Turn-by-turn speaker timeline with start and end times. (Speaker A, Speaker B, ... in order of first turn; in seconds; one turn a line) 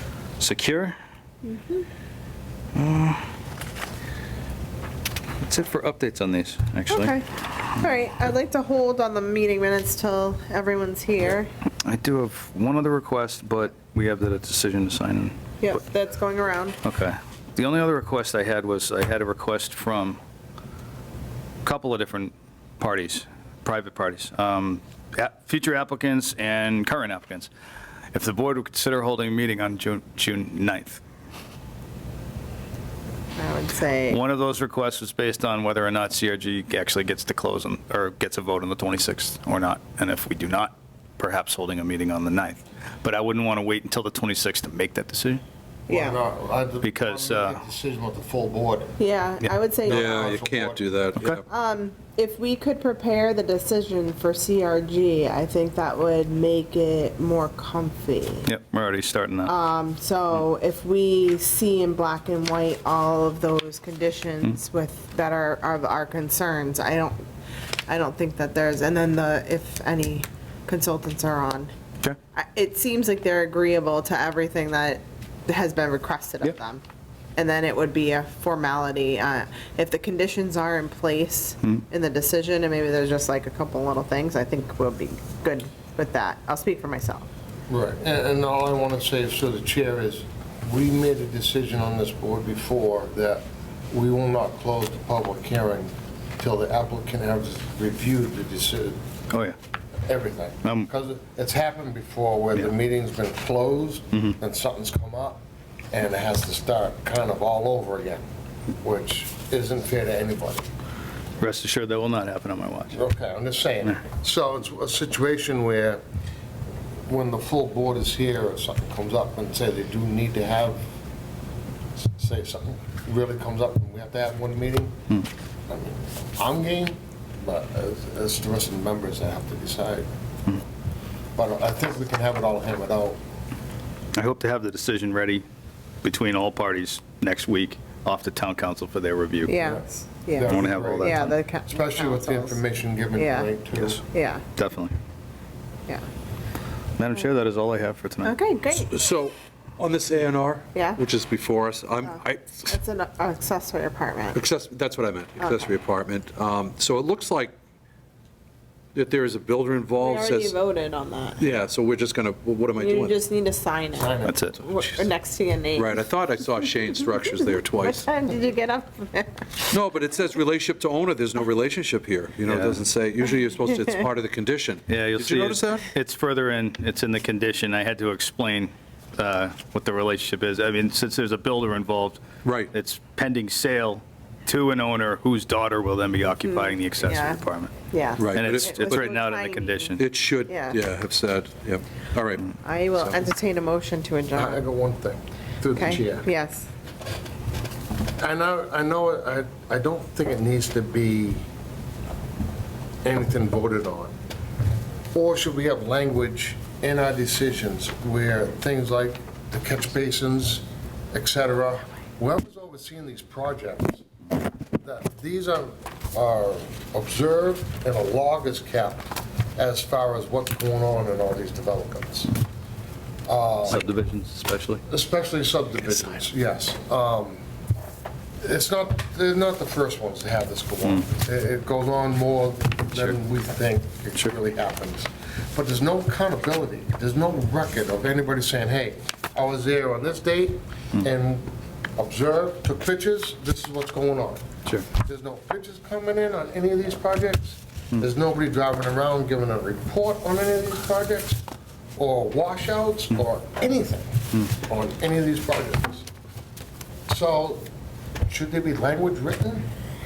Speaker A: 0.4-0.9
Speaker B: 1.4-1.9
Speaker A: 2.7-3.2
Speaker A: 5.4-7.2
Speaker B: 6.9-11.5
Speaker A: 11.8-15.3
Speaker B: 15.6-16.8
Speaker A: 16.8-20.2
Speaker A: 21.6-27.5
Speaker A: 28.1-31.0
Speaker B: 33.4-34.2
Speaker A: 34.1-45.4
Speaker C: 45.9-49.0
Speaker B: 45.9-46.2
Speaker A: 46.8-47.6
Speaker B: 49.0-50.2
Speaker C: 49.8-50.9
Speaker D: 49.9-51.4
Speaker B: 51.5-58.5
Speaker A: 58.4-59.5
Speaker B: 59.4-67.2
Speaker B: 67.9-71.7
Speaker B: 72.3-76.8
Speaker B: 77.3-87.3
Speaker C: 87.7-99.0
Speaker C: 100.0-108.2
Speaker C: 108.8-110.6
Speaker A: 111.4-113.0
Speaker C: 112.9-116.0
Speaker C: 117.0-120.8
Speaker C: 122.0-125.0
Speaker C: 125.7-130.1
Speaker C: 131.3-133.2
Speaker A: 134.2-135.4
Speaker A: 136.0-139.5
Speaker B: 139.5-142.6
Speaker C: 140.3-144.0
Speaker A: 140.4-141.3
Speaker B: 143.1-143.5
Speaker B: 144.1-144.4
Speaker A: 144.6-144.9
Speaker A: 147.0-148.3
Speaker B: 148.2-148.9
Speaker D: 148.9-152.7
Speaker B: 150.7-151.0
Speaker B: 152.1-154.4
Speaker D: 154.3-157.5
Speaker B: 155.4-155.7
Speaker D: 158.9-160.5
Speaker B: 160.0-161.5
Speaker D: 161.4-163.2
Speaker B: 162.8-166.0
Speaker C: 164.0-164.3
Speaker A: 164.2-164.6
Speaker D: 165.7-168.1
Speaker B: 167.8-169.6
Speaker D: 169.7-175.8
Speaker A: 172.5-172.8
Speaker A: 174.9-187.7
Speaker D: 182.4-182.7
Speaker B: 186.4-190.8
Speaker D: 188.2-189.1
Speaker A: 188.3-190.1
Speaker D: 190.0-193.2
Speaker B: 192.6-194.6
Speaker C: 194.3-196.3
Speaker B: 195.7-196.7
Speaker C: 198.2-201.4
Speaker C: 203.0-204.1
Speaker C: 205.1-214.1
Speaker C: 214.8-222.3
Speaker C: 223.2-223.8
Speaker A: 223.7-224.8
Speaker C: 224.9-227.4
Speaker C: 228.4-251.4
Speaker C: 252.0-256.1
Speaker C: 257.1-257.6
Speaker C: 258.3-259.6